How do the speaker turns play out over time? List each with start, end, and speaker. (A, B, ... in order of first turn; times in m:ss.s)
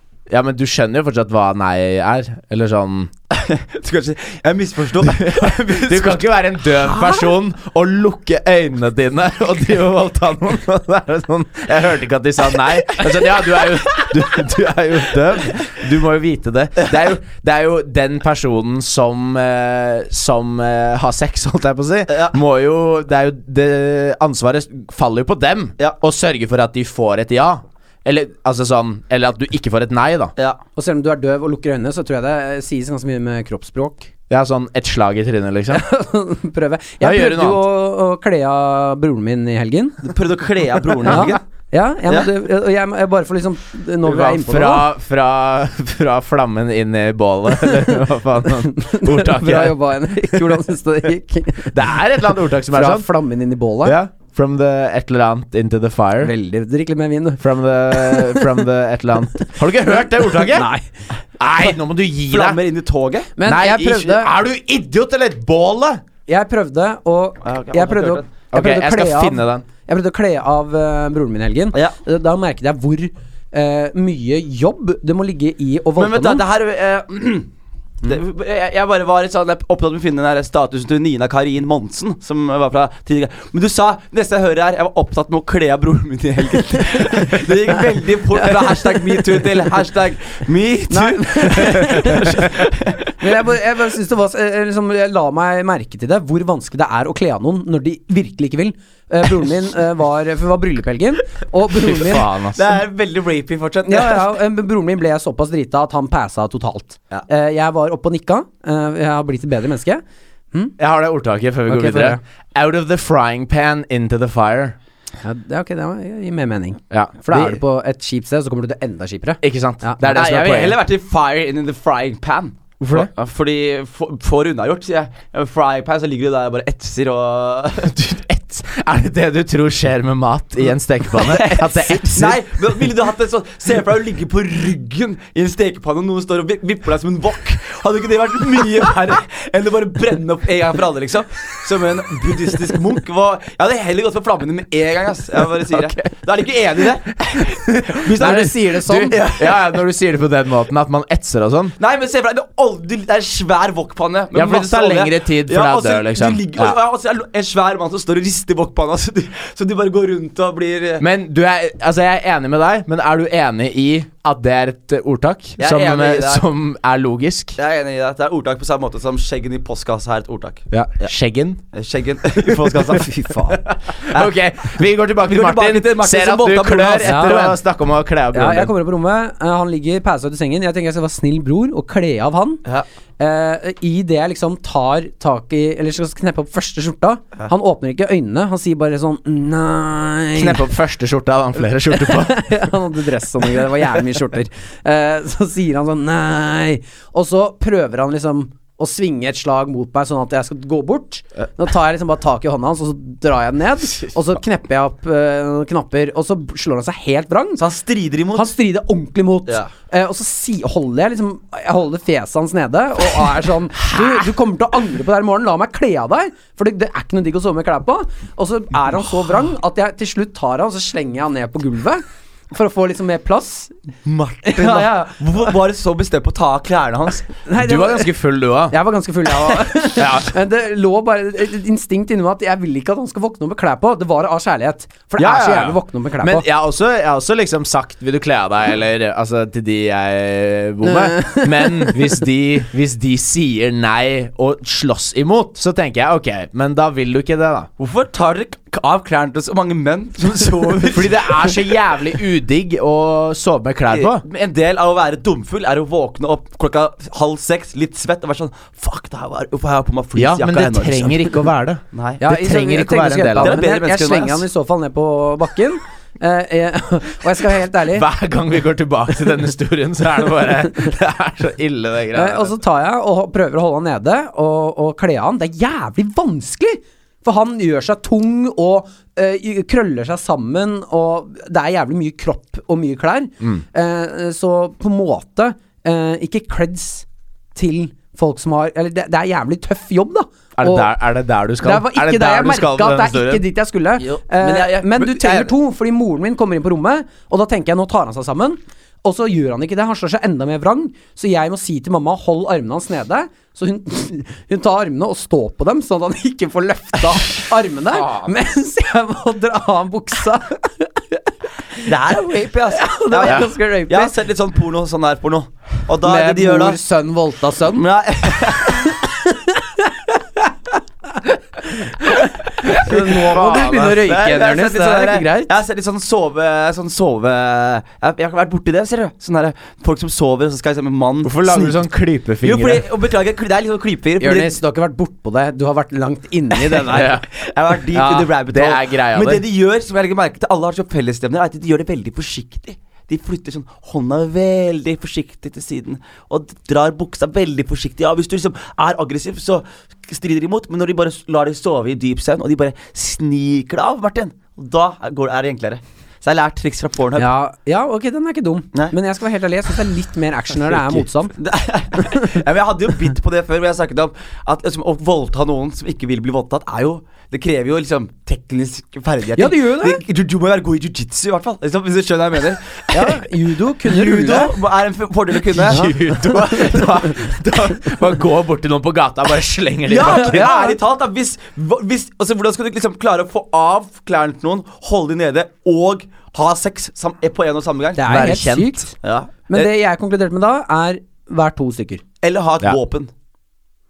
0:00.3-0:03.1 A
0:03.3-0:06.3 B
0:05.0-0:30.3 A
0:22.1-0:22.4 B
0:30.8-0:34.1 C
0:34.3-0:35.8 A
0:35.7-0:40.1 C
0:37.0-0:37.6 A
0:40.0-0:41.4 B
0:41.0-0:44.8 C
0:44.0-0:50.6 A
0:47.7-0:48.0 C
0:48.5-0:51.9 C
0:51.7-0:53.1 A
0:52.7-0:54.0 C
0:53.8-0:56.3 A
0:56.2-0:58.6 C
0:57.4-1:00.7 A
1:00.2-1:00.9 C
1:01.4-1:02.6 A
1:02.3-1:03.3 B
1:03.4-1:04.3 C
1:03.4-1:06.0 A
1:06.3-1:16.4 C
1:07.4-1:08.3 B
1:08.5-1:09.6 A
1:16.0-1:17.5 B
1:18.0-1:33.4 B
1:28.5-1:29.4 C
1:30.9-1:32.4 C
1:33.2-1:42.3 C
1:41.9-1:42.8 A
1:42.1-1:44.4 B
1:43.8-1:50.0 C
1:50.8-1:54.8 A
1:51.7-1:52.2 C
1:55.2-2:00.2 C
1:56.9-1:57.6 A
1:59.4-2:00.8 A
2:00.1-2:08.0 B
2:02.8-2:03.1 A
2:07.8-2:12.4 A
2:11.1-2:29.8 B
2:27.5-2:31.7 A
2:28.1-2:29.2 C
2:31.8-2:41.0 B
2:34.3-2:36.8 A
2:41.0-2:47.6 A
2:45.6-2:46.4 B
2:47.6-2:51.1 B
2:50.7-2:51.6 A
2:51.7-2:54.3 B
2:52.4-2:58.7 A
2:55.2-2:57.5 B
2:57.0-2:57.6 C
2:58.3-3:02.6 C
3:03.2-3:10.7 C
3:10.3-3:12.5 A
3:11.9-3:27.6 C
3:27.6-3:28.5 B
3:28.3-3:43.7 C
3:44.0-3:47.3 B
3:44.4-3:45.5 C
3:47.4-3:48.2 C
3:47.6-3:48.8 A
3:48.7-3:56.4 C
3:49.9-3:50.3 A
3:55.2-4:07.7 A
4:00.8-4:01.9 C
4:07.8-4:11.6 B
4:10.9-4:14.2 A
4:13.9-4:21.3 B
4:20.2-4:23.6 A
4:21.9-4:22.2 B
4:22.2-4:28.1 C
4:23.4-4:24.4 B
4:27.9-4:32.5 A
4:32.1-4:50.9 C
4:50.6-4:53.4 A
4:51.6-5:11.2 C
4:54.0-4:55.5 B
5:11.8-5:12.2 C
5:11.8-5:16.8 B
5:12.7-5:14.1 C
5:16.0-5:20.4 C
5:17.7-5:19.0 B
5:21.2-5:25.5 C
5:22.7-5:31.8 B
5:22.9-5:24.0 A
5:31.2-5:32.8 A
5:32.4-5:34.6 B
5:34.2-5:37.2 C
5:36.8-5:37.2 A
5:37.3-5:57.3 B
5:37.9-5:39.4 A
5:57.2-6:01.3 C
6:00.7-6:13.2 B
6:02.0-6:02.4 C
6:09.4-6:10.0 C
6:12.9-6:14.6 C
6:13.8-6:16.9 B
6:15.5-6:20.5 A
6:15.7-6:17.1 C
6:19.8-6:28.1 B
6:20.0-6:20.8 C
6:28.0-6:28.9 C
6:28.0-6:28.8 A
6:29.0-6:29.7 B
6:29.5-6:32.0 C
6:32.2-6:33.1 B